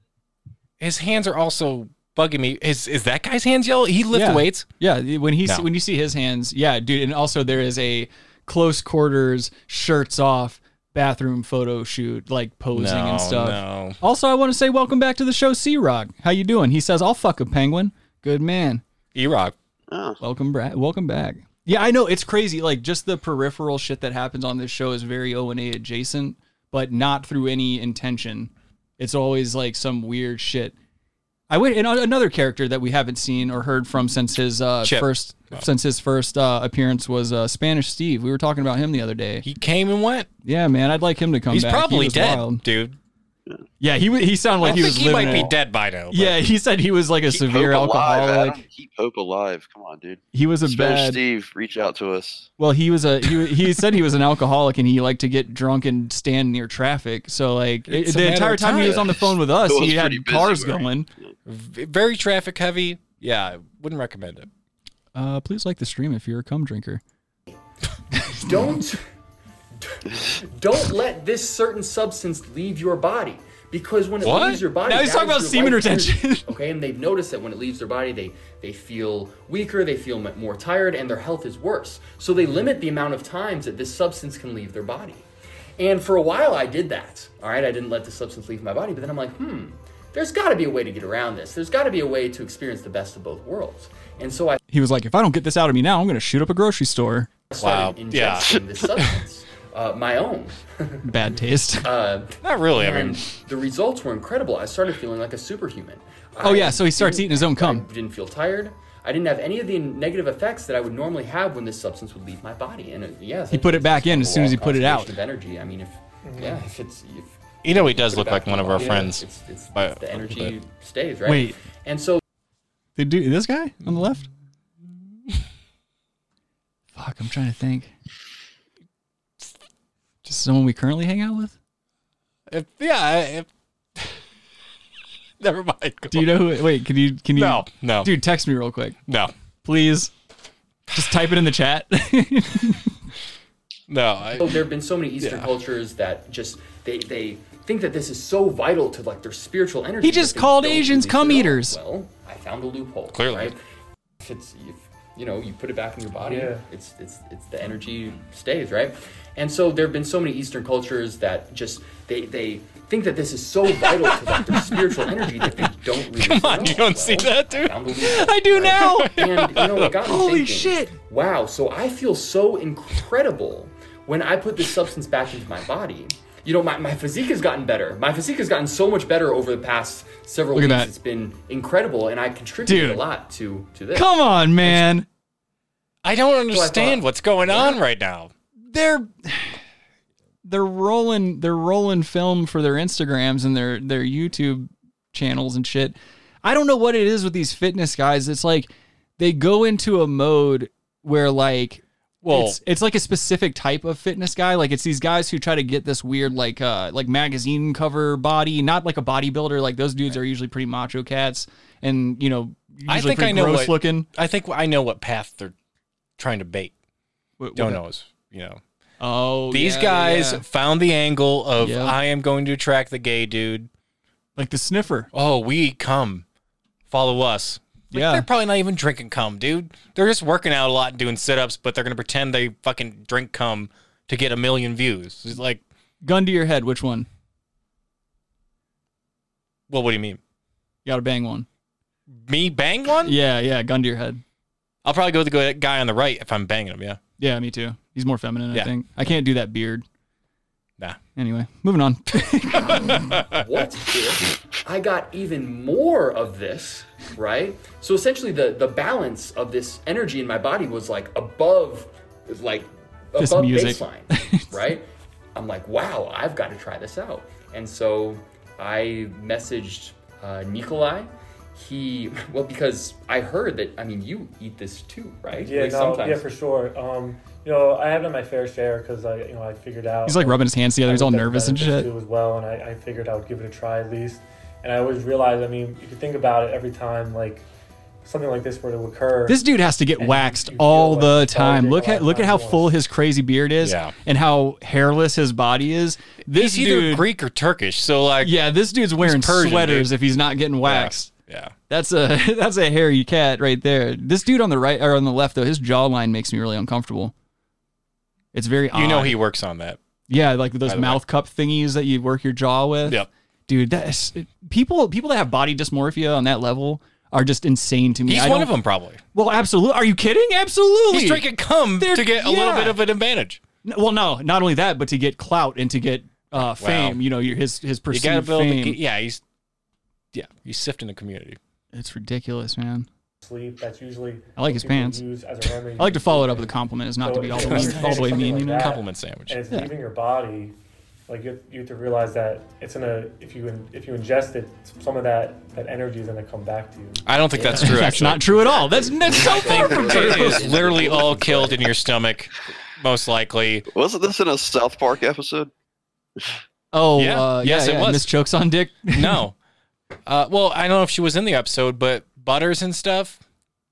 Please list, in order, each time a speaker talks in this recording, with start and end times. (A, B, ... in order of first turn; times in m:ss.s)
0:00.8-0:04.7 A
0:04.1-0:18.8 B
0:12.7-0:14.0 A
0:19.1-0:19.5 A
0:19.9-0:20.2 C
0:20.2-0:30.7 B
0:31.5-0:39.4 B
0:34.8-0:35.7 A
0:39.4-0:40.3 A
0:40.4-0:42.6 B
0:41.5-0:43.0 A
0:43.8-0:45.5 B
0:44.6-0:46.4 A
0:46.1-0:48.6 B
0:47.3-0:52.5 C
0:50.3-0:51.2 B
0:52.6-1:01.1 B
0:57.9-0:59.2 A
0:58.7-1:01.3 C
1:01.4-1:04.5 A
1:05.1-1:07.0 B
1:08.3-1:08.8 B
1:08.3-1:09.0 D
1:09.8-1:25.2 D
1:14.2-1:14.6 A
1:14.8-1:16.5 B
1:22.4-1:22.7 E
1:25.8-1:34.6 D
1:34.7-1:37.3 B
1:37.5-1:41.0 D
1:37.6-1:38.6 A
1:38.4-1:38.6 C
1:41.0-1:41.9 B
1:41.8-2:02.2 D
1:42.4-1:43.2 A
1:46.4-1:47.8 B
1:53.5-1:55.1 B
1:56.2-1:56.6 E
1:57.6-2:00.5 A
2:01.2-2:01.5 B
2:03.0-2:04.2 B
2:06.9-2:07.9 B
2:10.2-2:11.5 B
2:12.5-2:14.2 A
2:15.4-2:16.4 A
2:16.1-2:19.0 B
2:17.3-2:18.1 A
2:19.1-2:19.3 A
2:19.6-2:20.1 B
2:20.9-2:22.9 B
2:23.9-2:24.5 A
2:24.4-2:33.6 D
2:25.2-2:25.5 A
2:30.0-2:31.8 B
2:33.1-2:33.5 A
2:34.2-3:04.1 D
2:36.2-2:36.6 E
2:46.2-2:47.8 A
2:48.0-2:49.2 B
2:48.7-2:49.9 A
2:50.0-2:51.0 B
3:00.5-3:00.9 B
3:02.6-3:03.0 B
3:03.9-3:05.0 B
3:06.0-3:08.3 A
3:06.5-3:07.8 D
3:08.7-3:09.6 B
3:10.4-3:34.0 B
3:22.2-3:22.6 A
3:32.9-3:35.5 A
3:36.2-3:36.7 A
3:37.4-3:37.8 B
3:37.6-3:38.6 A
3:39.0-3:40.4 B
3:39.5-3:43.7 A
3:41.6-3:42.0 B
3:44.4-3:45.1 B
3:45.1-3:46.2 A
3:46.9-3:55.6 A
3:47.9-3:48.3 B
3:56.0-3:57.1 B
3:59.7-4:00.2 A
4:00.8-4:01.4 B
4:02.2-4:03.2 A
4:03.0-4:04.2 B
4:04.8-4:07.0 A
4:07.2-4:09.8 B
4:11.2-4:13.2 B
4:12.7-4:13.2 A
4:13.3-4:36.3 D
4:23.2-4:24.5 B
4:35.4-4:47.4 E
4:40.0-4:41.9 B
4:48.0-4:49.4 E
4:49.3-4:57.1 B
4:50.0-4:52.7 E
4:53.6-4:53.9 A
4:56.2-4:58.4 A
4:58.2-5:01.1 B
4:59.0-4:59.9 A
5:00.6-5:01.5 A
5:01.7-5:07.1 B
5:08.3-5:09.2 B
5:08.7-5:09.8 A
5:10.1-5:18.5 B
5:10.6-5:11.0 A
5:18.1-5:19.0 A
5:19.1-5:22.8 B
5:20.9-5:23.4 A
5:23.6-5:28.8 B
5:26.4-5:27.0 A
5:27.9-5:29.2 A
5:30.1-5:31.4 A
5:31.7-5:32.9 B
5:33.2-5:40.5 E
5:34.4-5:35.0 B
5:35.8-5:38.7 B
5:37.3-5:39.4 A
5:41.1-5:47.0 E
5:47.0-5:53.6 A
5:47.4-5:47.8 D
5:47.5-5:50.4 B
5:48.4-5:51.6 D
5:53.7-5:55.5 C
5:56.7-5:59.2 B
5:57.0-5:58.1 A
5:58.9-5:59.3 A
6:00.0-6:03.2 A